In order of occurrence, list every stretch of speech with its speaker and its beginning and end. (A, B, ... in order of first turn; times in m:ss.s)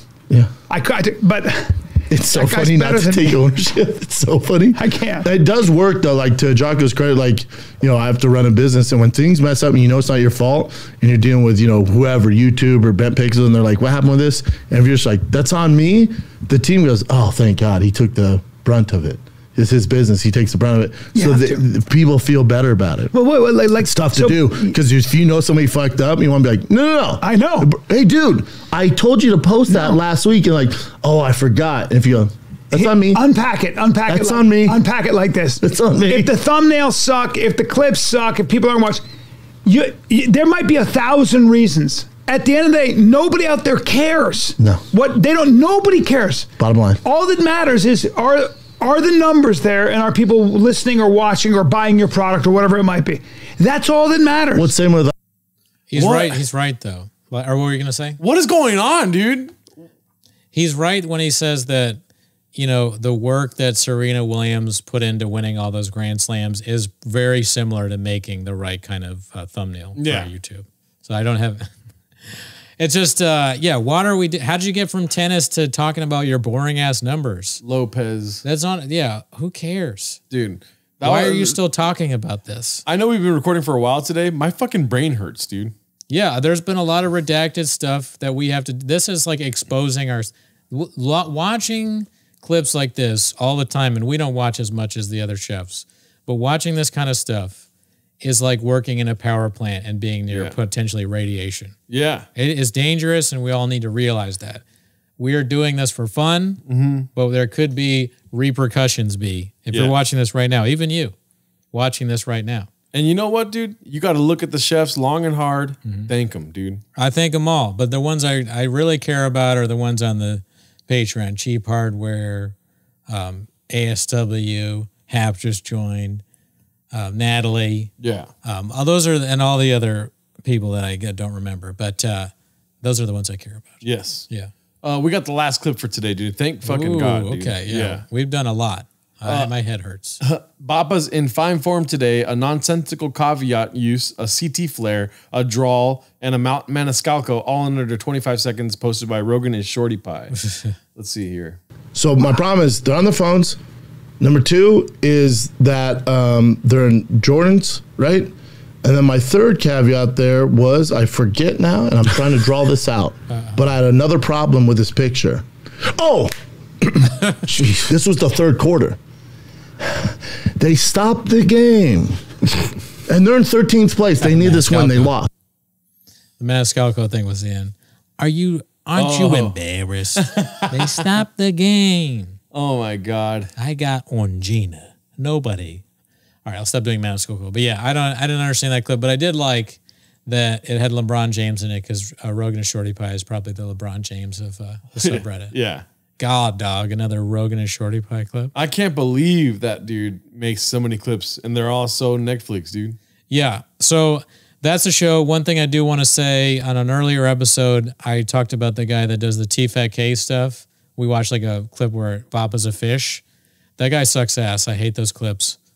0:00.7-0:03.4 A
0:02.1-0:23.1 B
0:04.8-0:05.3 A
0:21.1-0:21.6 A
0:23.1-0:24.7 A
0:23.8-0:33.2 B
0:27.2-0:27.7 A
0:29.7-0:30.0 A
0:32.7-0:39.0 A
0:34.1-0:34.8 B
0:35.6-0:36.3 B
0:39.7-0:46.5 A
0:44.6-0:44.8 B
0:46.6-0:47.0 B
0:47.0-0:54.7 A
0:54.6-0:55.1 B
0:55.9-0:58.2 C
0:56.0-0:56.4 D
0:58.2-0:59.6 D
1:00.5-1:02.0 C
1:02.6-1:11.7 C
1:10.0-1:10.3 D
1:12.8-1:17.6 C
1:17.6-1:18.4 D
1:18.4-1:20.2 C
1:20.3-1:21.6 D
1:21.0-1:22.8 C
1:22.9-1:25.7 D
1:26.1-1:37.6 C
1:38.2-1:41.8 C
1:40.3-1:40.6 D
1:41.9-1:42.3 D
1:42.4-1:44.6 C
1:45.2-1:46.6 C
1:46.7-1:47.1 D
1:47.2-1:51.2 C
1:51.7-1:52.7 C
1:52.9-1:56.8 D
1:57.0-2:02.6 C
2:03.1-2:06.2 C
2:06.9-2:07.9 C
2:08.0-2:08.3 D
2:08.4-2:14.5 C
2:13.8-2:14.3 D
2:14.8-2:18.0 D
2:16.6-2:20.2 C
2:19.2-2:19.5 D
2:20.2-2:31.6 D
2:32.0-2:33.6 B
2:34.2-2:49.0 B
2:49.8-2:52.3 B
2:53.1-2:55.3 B
2:54.3-2:55.1 C
2:56.4-3:02.4 C
2:59.0-2:59.6 D
3:00.2-3:01.0 D
3:02.5-3:03.5 D
3:03.6-3:05.8 C
3:06.5-3:15.6 C
3:15.0-3:15.8 D
3:16.2-3:18.5 C
3:18.6-3:23.0 D
3:23.3-3:33.2 C
3:33.8-3:35.6 C